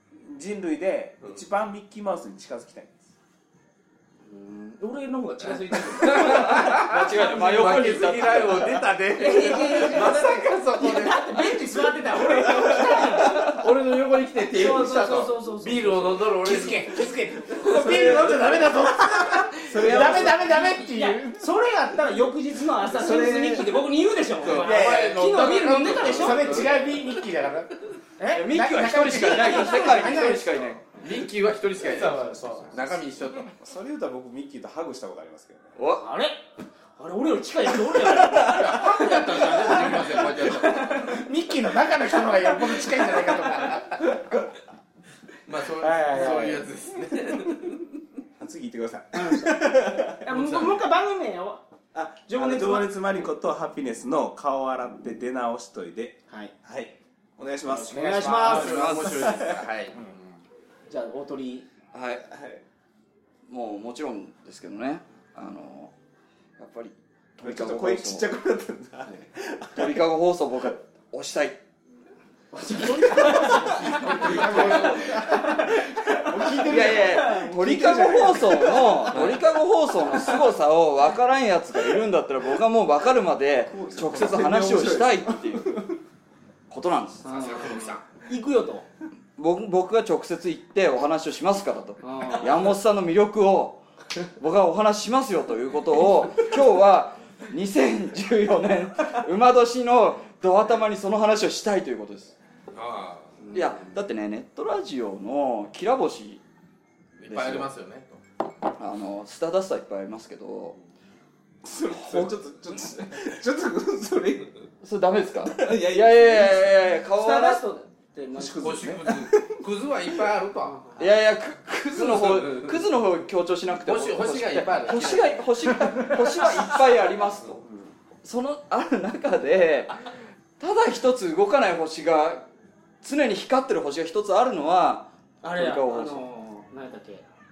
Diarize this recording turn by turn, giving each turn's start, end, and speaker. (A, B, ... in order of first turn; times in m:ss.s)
0:00.2-0:03.0 A
0:04.3-0:06.7 B
0:05.9-0:11.6 C
0:06.1-0:08.8 D
0:09.2-0:13.5 B
0:12.2-0:12.9 A
0:12.7-0:17.0 C
0:14.5-0:16.4 B
0:16.4-0:21.4 E
0:17.6-0:18.5 B
0:18.0-0:18.3 C
0:19.3-0:26.8 B
0:19.6-0:20.6 A
0:22.9-0:23.8 A
0:24.4-0:27.0 C
0:24.4-0:30.8 E
0:24.6-0:25.2 A
0:28.2-0:28.5 B
0:28.3-0:30.8 D
0:31.0-0:33.5 C
0:31.8-0:32.8 E
0:32.1-0:35.8 A
0:35.8-0:36.1 D
0:36.0-0:41.2 B
0:38.1-0:38.6 A
0:38.3-0:41.1 C
0:41.0-0:44.4 E
0:43.5-0:43.8 C
0:45.5-0:47.8 C
0:45.8-0:46.7 E
0:48.4-0:50.2 A
0:49.1-0:51.6 B
0:50.3-0:50.8 C
0:51.9-0:58.0 A
0:52.3-0:53.1 B
0:57.7-0:58.8 B
0:57.9-0:59.2 E
0:58.4-1:00.4 C
0:58.5-0:59.4 D
0:59.2-0:59.6 A
1:00.9-1:01.7 B
1:01.9-1:02.3 D
1:02.2-1:02.6 A
1:03.5-1:05.9 D
1:06.6-1:08.3 D
1:07.4-1:10.0 A
1:09.8-1:11.6 D
1:12.5-1:17.5 B
1:13.1-1:17.2 A
1:13.5-1:15.2 C
1:14.6-1:14.8 D
1:16.3-1:19.2 E
1:16.7-1:25.9 D
1:19.1-1:19.4 C
1:23.7-1:25.9 A
1:26.7-1:27.3 D
1:27.2-1:28.0 C
1:27.2-1:28.9 B
1:29.4-1:42.4 D
1:32.0-1:32.5 B
1:42.7-1:43.4 C
1:43.4-1:44.0 B
1:43.5-1:46.4 D
1:47.2-1:48.2 C
1:47.3-1:47.7 D
1:48.8-1:50.8 D
1:51.6-1:54.7 A
1:52.0-1:52.3 D
1:54.8-1:57.6 D
1:55.5-1:56.9 A
1:57.2-1:58.9 B
1:58.4-1:59.6 A
1:58.6-2:00.8 C
2:00.6-2:01.0 B
2:01.0-2:07.6 D
2:02.0-2:02.9 C
2:03.8-2:05.5 C
2:08.2-2:10.0 D
2:10.6-2:12.4 D
2:13.0-2:16.2 D
2:15.4-2:17.3 B